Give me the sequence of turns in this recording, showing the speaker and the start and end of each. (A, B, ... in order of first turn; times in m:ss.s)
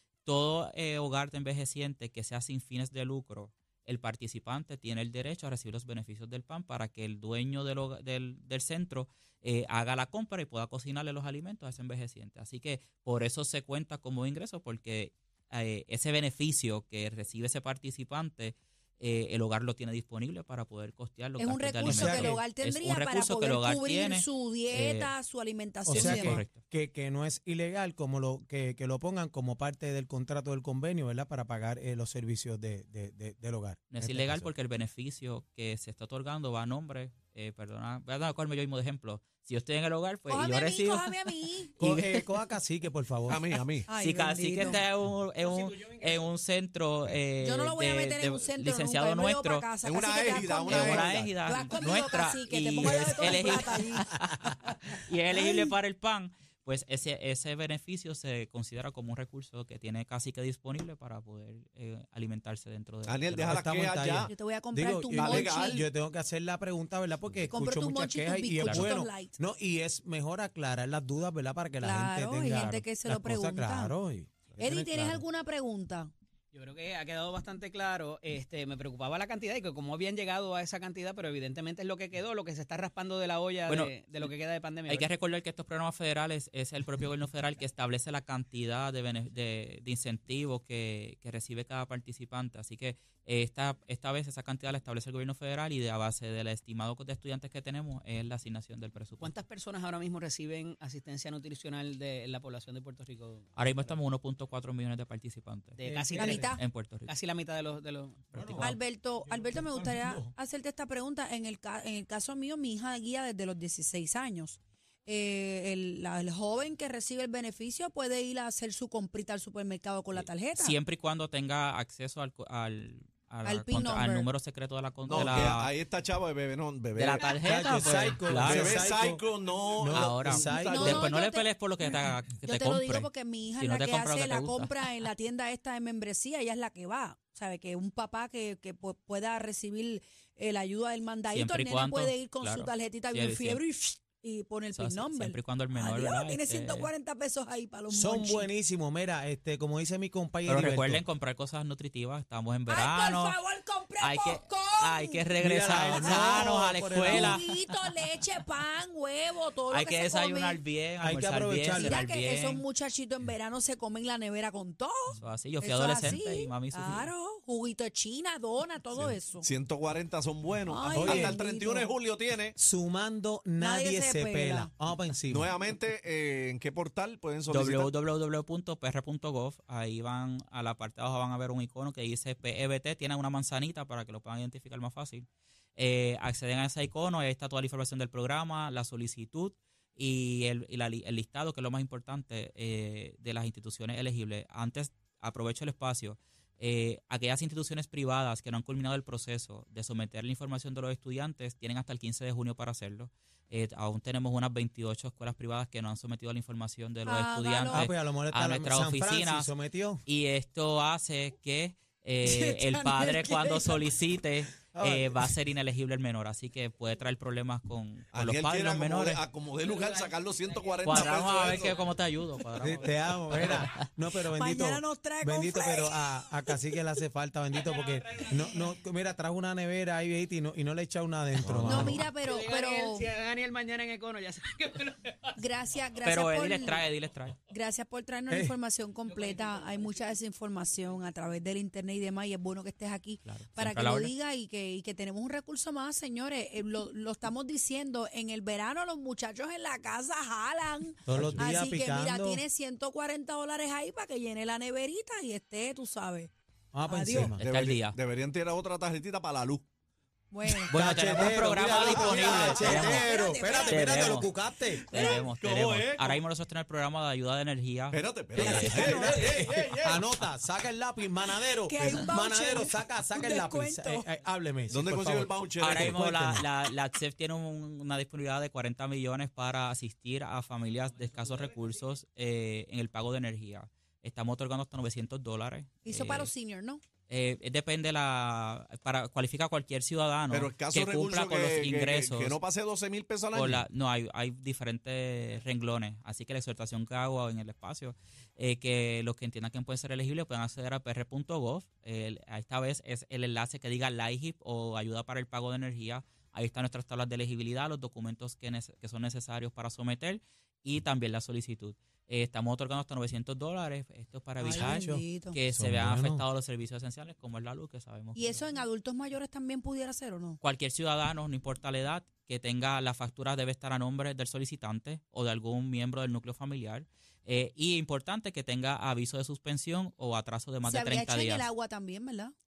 0:00.2-0:25.1 A
0:21.4-0:26.4 B
0:21.8-0:22.4 C
0:25.8-0:34.5 C
0:25.9-0:26.6 A
0:33.9-0:42.2 A
0:40.3-0:41.8 B
0:41.8-0:43.5 C
0:43.3-0:43.9 D
0:43.9-0:44.8 B
0:43.9-0:49.7 A
0:47.4-0:54.0 B
0:49.8-0:51.3 D
0:50.6-1:03.7 A
0:55.3-0:55.7 B
1:03.0-1:04.3 D
1:03.5-1:15.2 C
1:04.3-1:05.8 B
1:05.1-1:05.8 D
1:07.5-1:09.3 B
1:08.6-1:08.9 A
1:11.8-1:13.9 B
1:12.6-1:12.8 A
1:14.6-1:16.1 B
1:16.5-1:25.1 E
1:23.7-1:24.3 A
1:24.9-1:39.3 A
1:39.2-1:43.4 E
1:43.6-1:45.8 A
1:45.8-1:48.8 E
1:45.8-1:46.5 C
1:46.1-1:46.6 B
1:46.6-1:47.1 A
1:48.3-1:48.6 C
1:48.4-1:48.6 A
1:48.6-2:00.8 B
1:49.3-1:50.3 C
2:00.2-2:05.7 A
2:03.4-2:04.3 B
2:05.1-2:07.2 D
2:05.1-2:05.6 C
2:07.0-2:08.9 A
2:07.4-2:09.2 C
2:08.4-2:11.0 D
2:09.8-2:11.1 C
2:09.9-2:14.9 A
2:10.6-2:11.5 B
2:12.4-2:28.5 B
2:21.3-2:23.6 A
2:24.7-2:26.9 A
2:27.9-2:31.0 C
2:30.5-2:33.4 A
2:32.7-2:35.2 B
2:34.0-2:37.7 A
2:35.4-2:37.4 C
2:35.8-2:40.6 B
2:39.7-2:42.6 A
2:41.0-2:42.0 C
2:41.7-2:49.5 B
2:45.1-2:47.1 A
2:49.0-2:52.6 D
2:50.6-2:51.9 B
2:50.9-2:51.4 C
2:52.6-2:55.5 C
2:53.6-2:54.7 B
2:55.3-2:57.9 D
2:57.5-3:29.5 A
3:27.0-3:27.9 B
3:27.7-3:30.0 C
3:30.0-3:39.2 A
3:32.2-3:33.8 B
3:34.7-3:35.3 C
3:38.1-3:41.8 D
3:39.6-3:42.0 E
3:40.8-3:43.8 A
3:41.1-3:41.4 C
3:42.6-3:52.0 C
3:44.3-3:46.5 B
3:47.5-3:48.3 E
3:51.4-3:52.0 A
3:51.6-3:53.1 B
3:52.2-3:55.4 E
3:55.3-3:56.8 B
3:56.0-3:57.4 A
3:57.5-4:16.3 B
3:58.3-3:58.5 C
3:59.1-4:00.1 E
4:03.2-4:04.1 A
4:11.0-4:12.4 C
4:11.2-4:11.4 A
4:16.7-4:17.4 C
4:16.8-4:17.4 B
4:17.4-4:18.0 A
4:17.4-4:19.6 D
4:20.3-4:20.7 B
4:20.7-4:24.3 A
4:20.7-4:25.0 C
4:21.7-4:22.7 D
4:22.1-4:24.3 B
4:24.8-4:26.2 D
4:24.9-4:29.2 A
4:27.9-4:30.1 D
4:28.3-4:36.5 C
4:28.8-4:29.3 B
4:31.4-4:34.1 B
4:34.7-4:36.0 D
4:35.6-4:46.3 A
4:45.8-4:46.8 B
4:47.1-4:52.4 A
4:50.3-4:53.6 D
4:53.3-5:18.6 A
5:14.4-5:16.2 C
5:14.4-5:15.4 B
5:18.1-5:20.4 B
5:20.4-5:31.4 A
5:30.6-5:32.3 B